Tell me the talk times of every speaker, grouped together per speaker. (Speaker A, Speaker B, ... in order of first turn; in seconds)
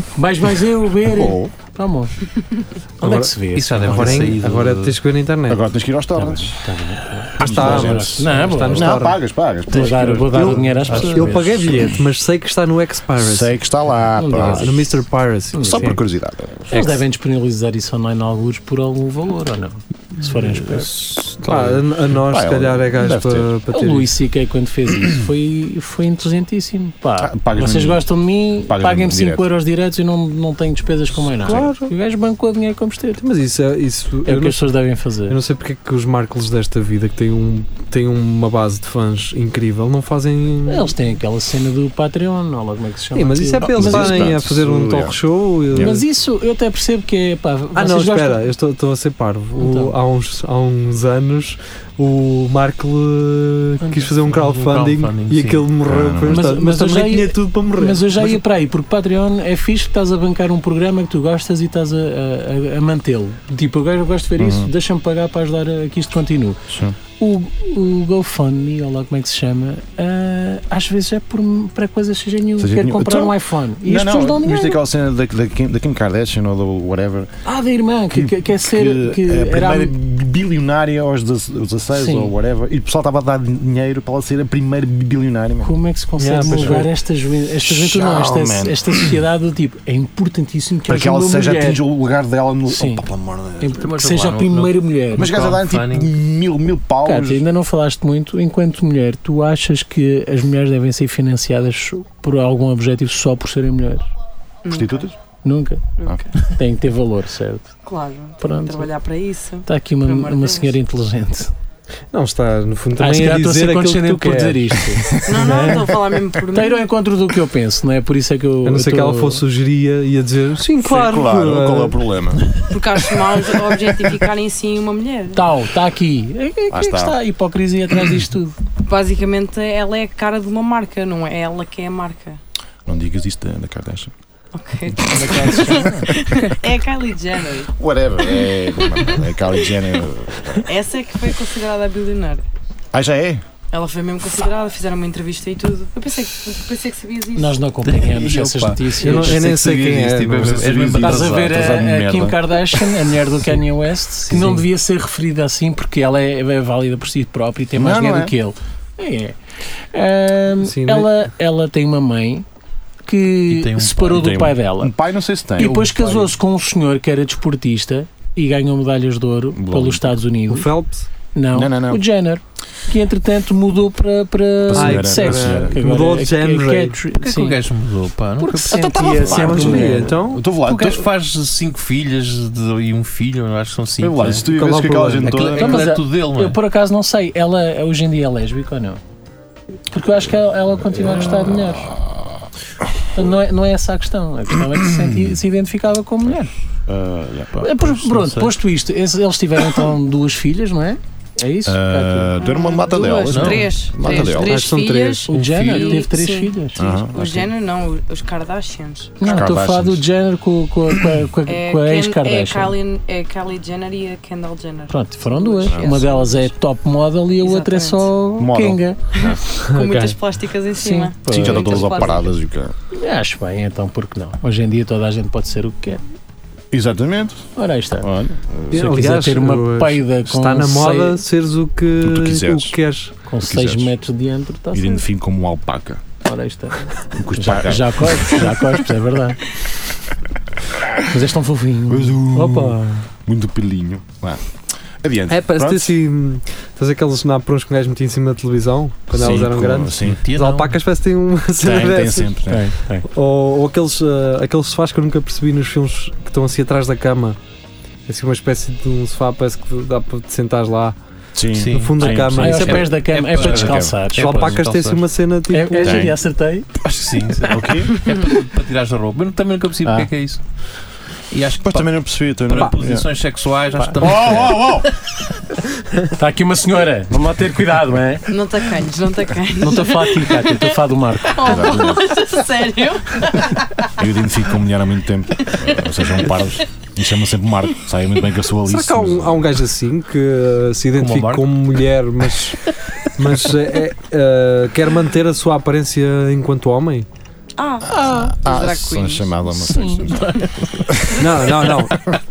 Speaker A: 0.1-2.1, 3.0-4.3, 6.2-9.0, 9.7-11.9, 14.2-14.8, 15.5-15.9, 16.7-21.0, 23.7-33.2, 34.2-35.4, 40.7-44.4, 45.7-48.4, 49.5-49.9, 56.2-74.8, 77.5-79.9, 81.9-82.3, 85.6-91.8, 92.7-93.0, 93.6-95.5, 97.0-104.0, 105.4-105.9, 106.4-107.7, 108.4-108.9, 109.7-111.5, 113.0-115.9, 116.5-119.4, 125.3-128.6, 135.1-136.1, 147.3-149.8, 151.0-159.4, 159.9-162.4, 163.1-164.9, 165.6-170.7, 171.3-177.6, 178.4-180.1, 185.5-189.0, 189.9-191.9, 193.1-196.5, 197.6-202.4, 205.3-207.0, 209.2-212.8, 214.9-219.0, 220.8-222.1, 222.9-226.0, 227.6-228.1, 228.7-231.2, 233.3-235.0, 236.2-239.5, 241.1-243.0, 252.5-253.1, 262.0-264.6, 265.5-266.7, 276.1-278.3, 279.6-281.8, 297.9-298.3, 299.7-300.5
Speaker B: 1.0-1.5, 5.5-12.0, 13.2-14.9, 15.6-16.9, 22.1-23.5, 27.2-28.0, 28.6-29.5, 43.6-45.2, 55.8-56.5, 64.4-64.7, 66.7-67.0, 72.6-77.3, 78.1-85.8, 86.5-86.8, 87.6-89.2, 90.9-93.8, 95.1-97.4, 104.7-105.1, 120.7-122.5, 126.7-127.2, 132.8-134.1, 135.0-136.1, 137.8-140.7, 142.9-143.4, 150.2-152.4, 157.7-158.3, 164.1-166.3, 169.5-170.2, 171.5-172.0, 174.6-175.8, 178.6-181.1, 184.0-185.9, 191.1-192.3, 194.7-195.3, 196.9-197.6, 201.6-204.6, 206.8-207.5, 209.2-210.1, 215.7-216.0, 218.4-219.4, 221.3-222.7, 226.7-228.9, 232.0-232.8, 233.4-233.9, 234.7-236.0, 237.2-238.6, 241.9-244.4, 245.0-245.9, 249.1-250.2, 251.6-252.7, 261.3-262.7, 263.3-264.0, 265.8-266.1, 267.5-267.9, 271.6-273.1, 274.0-274.9, 281.4-282.1, 283.9-289.6, 297.9-301.2
Speaker C: 3.0-5.6, 7.4-9.2, 11.0-13.5, 14.3-16.0, 21.4-24.1, 31.4-31.9, 33.2-34.7, 35.3-40.9, 43.1-46.0, 47.7-58.4, 86.2-86.9, 112.1-115.9, 118.6-122.0, 149.0-150.7, 154.3-154.6, 160.6-161.3, 170.5-171.1, 174.7-177.0, 179.2-180.4, 184.5-185.5, 204.1-205.8, 219.7-220.2, 228.7-233.1, 245.3-252.3, 253.0-257.4, 258.1-260.9, 261.6-266.1, 288.6-292.6, 293.1-297.1, 301.1-302.0
Speaker D: 3.5-5.0, 10.3-11.1, 20.4-21.8, 54.2-55.7, 93.7-96.1, 147.8-151.8, 154.2-154.6, 163.5-164.5, 177.2-179.5, 180.6-184.5, 185.2-186.6, 197.5-198.6, 203.3-203.7, 249.2-249.4, 250.0-250.8, 261.5-265.0, 266.8-270.4, 271.3-274.9, 291.0-291.5
Speaker E: 104.6-105.1, 106.0-106.4, 107.8-110.8, 115.2-116.9, 122.7-125.5, 128.8-132.4, 134.5-137.7, 138.4-139.7, 140.6-142.4, 143.7-147.6, 202.4-209.4, 211.4-216.5, 217.4-218.1, 219.1-222.3, 278.3-280.7, 281.3-283.7, 297.6-299.4